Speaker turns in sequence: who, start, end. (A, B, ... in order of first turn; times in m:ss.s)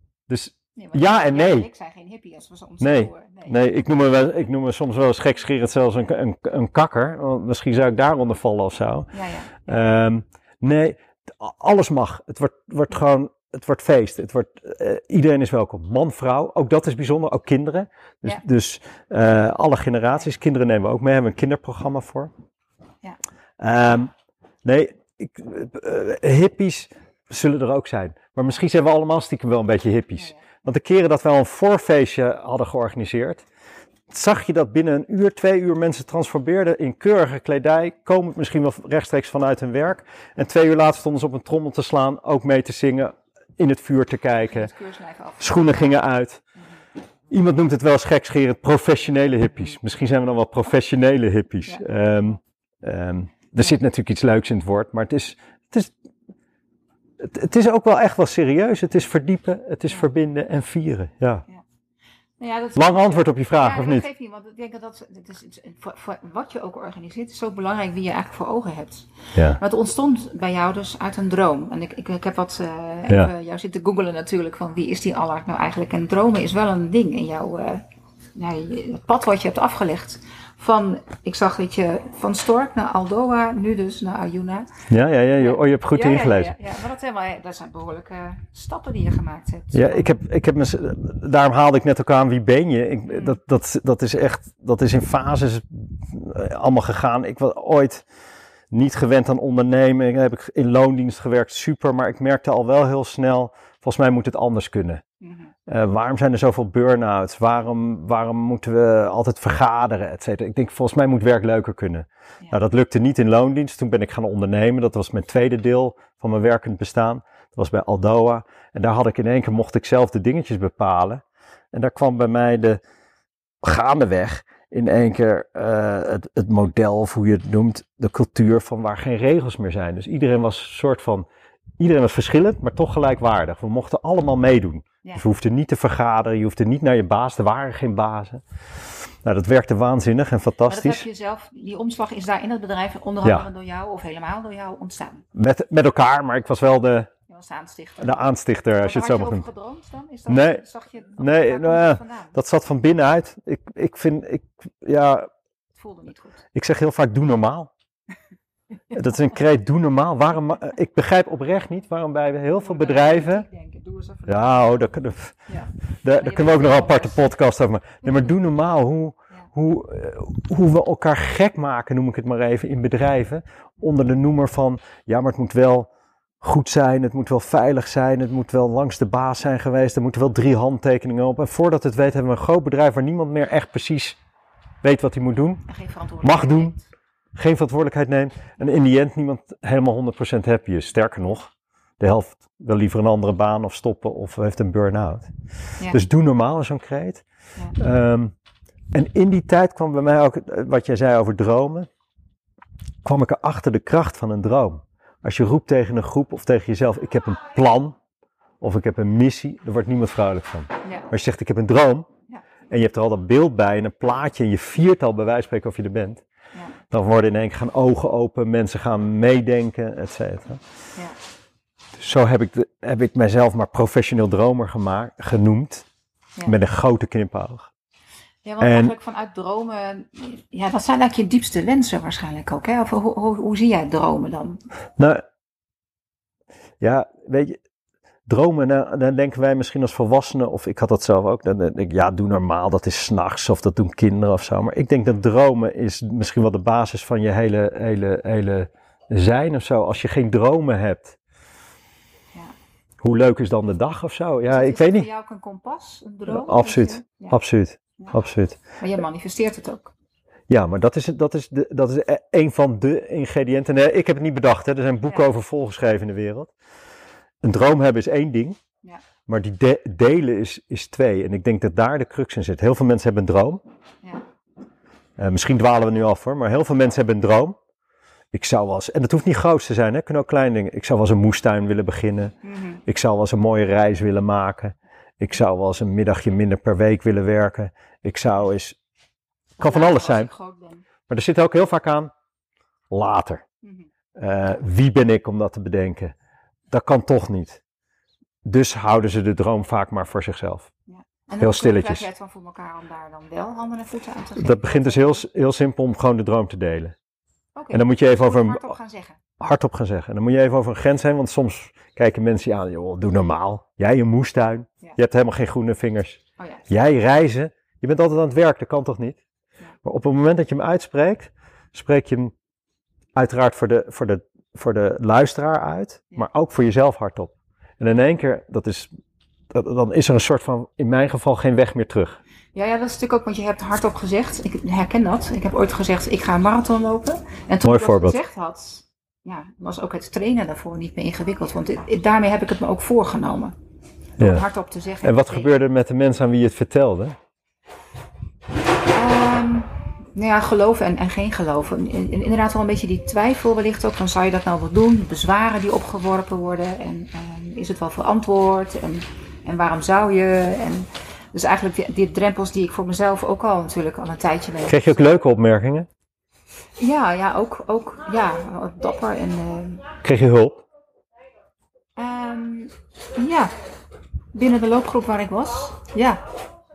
0:00.3-0:01.7 A
0:00.8-0:03.8 B
0:02.8-0:09.1 A
0:09.1-0:09.6 B
0:09.6-0:22.3 A
0:23.6-0:24.1 A
0:24.6-0:33.4 A
0:34.1-0:44.7 A
0:44.5-0:45.9 B
0:45.4-0:46.4 A
0:47.3-0:55.9 A
0:57.2-1:01.4 A
1:02.4-1:17.8 B
1:02.8-1:04.0 A
1:09.3-1:09.6 A
1:18.3-1:24.7 B
1:24.9-1:26.5 A
1:25.4-1:30.2 B
1:29.7-1:38.0 A
1:38.7-1:45.0 A
1:45.2-1:45.5 B
1:45.7-2:02.8 A
2:03.6-2:11.2 A
2:11.8-2:18.4 A
2:19.2-2:21.0 A
2:20.7-2:25.2 B
2:25.3-2:27.1 A
2:27.3-2:32.3 B
2:28.0-2:29.4 A
2:30.3-2:30.6 A
2:31.2-2:35.3 A
2:35.7-2:36.4 B
2:36.5-2:37.7 A
2:38.9-2:43.4 A
2:42.6-2:44.6 B
2:44.3-2:45.4 A
2:45.5-2:47.2 B
2:46.0-2:55.9 A
2:56.4-3:04.2 A
3:04.8-3:05.6 A
3:05.7-3:06.8 B
3:06.2-3:06.8 A
3:07.3-3:15.3 A
3:15.9-3:17.2 A
3:17.8-3:18.3 A
3:18.9-3:21.9 A
3:23.0-3:28.0 A
3:28.6-3:32.1 A
3:32.7-3:36.2 A
3:36.9-3:40.6 A
3:42.0-3:45.8 A
3:46.4-3:47.7 A
3:48.4-3:54.6 B
3:48.6-3:48.9 A
3:56.8-3:57.6 A
3:58.3-4:11.2 A
4:13.0-4:15.1 A
4:14.5-4:17.4 B
4:16.3-4:18.6 A
4:18.8-4:19.9 B
4:20.5-4:26.5 A
4:27.4-4:28.6 A
4:29.2-4:33.6 A
4:35.2-4:37.6 A
4:38.3-4:42.3 A
4:42.4-4:42.8 B
4:42.8-4:48.8 A
4:49.6-4:50.8 B
4:49.6-4:50.3 A
4:51.1-4:52.1 A
4:52.9-4:53.4 A
4:53.6-4:53.9 B
4:54.2-4:56.1 A
4:56.7-4:57.6 A
4:58.4-5:00.7 A
5:00.9-5:05.2 B
5:01.4-5:02.0 A
5:04.4-5:06.9 A
5:07.6-5:09.2 B
5:07.7-5:08.7 A
5:09.4-5:19.2 A
5:19.8-5:22.3 A
5:23.1-5:28.9 A
5:29.5-5:32.2 A
5:32.5-5:43.6 B
5:37.6-5:38.2 A
5:44.2-5:44.4 A
5:44.2-5:45.5 B
5:45.0-5:47.2 A
5:48.9-6:05.0 B
6:04.6-6:05.9 A
6:06.8-6:09.9 B
6:10.0-6:10.6 A
6:12.0-6:13.5 B
6:14.3-6:16.3 B